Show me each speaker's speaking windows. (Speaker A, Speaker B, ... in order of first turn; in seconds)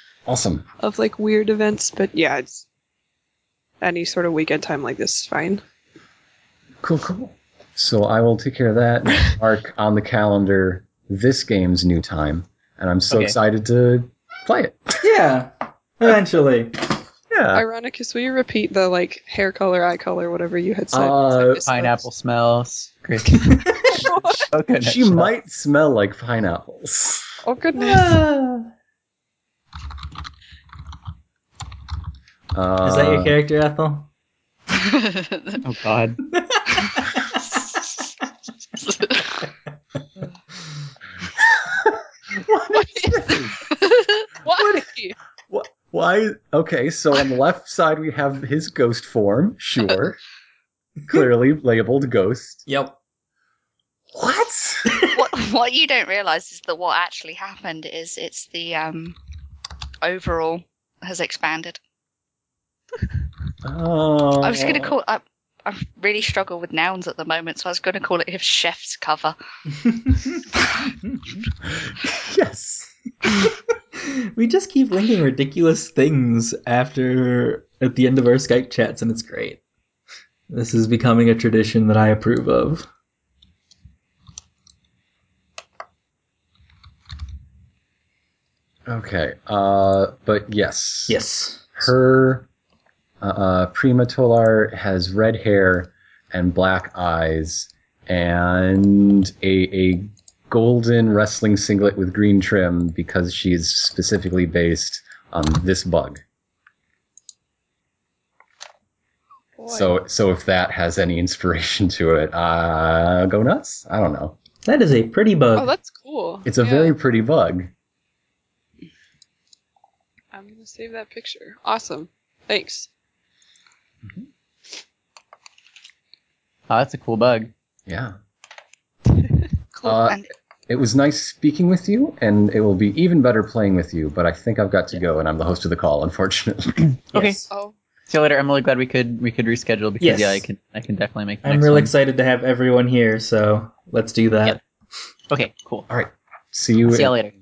Speaker A: 0.3-0.7, 6.8-15.0, 17.3-17.6, 20.9-21.6, 24.8-27.3, 32.5-33.4, 41.8-43.6, 45.5-50.2, 51.1-52.6, 54.1-55.1, 63.6-65.0, 71.7-72.9, 88.9-91.2, 91.8-92.5, 93.2-106.2, 109.7-114.4, 116.5-117.7, 127.9-128.2, 129.8-137.3, 145.9-147.2
Speaker B: 0.8-2.6, 3.8-5.6, 17.5-22.1, 23.3-24.5, 27.4-28.2, 42.7-43.3, 44.5-45.2, 109.6-109.9, 115.6-117.0, 120.3-122.9, 137.5-137.8
Speaker C: 15.0-17.0, 27.8-28.7, 32.8-34.1, 36.4-37.3, 52.7-53.0, 74.0-79.6, 80.5-82.9, 91.1-91.9, 114.6-115.7, 140.0-140.5, 141.4-144.6
Speaker D: 21.7-25.3, 35.6-36.2, 126.7-127.5, 137.1-137.4, 138.1-141.9, 145.3-145.9, 146.9-147.3
Speaker E: 34.8-35.6, 38.9-39.2, 55.1-59.2, 60.0-61.8, 64.4-69.4, 129.8-130.3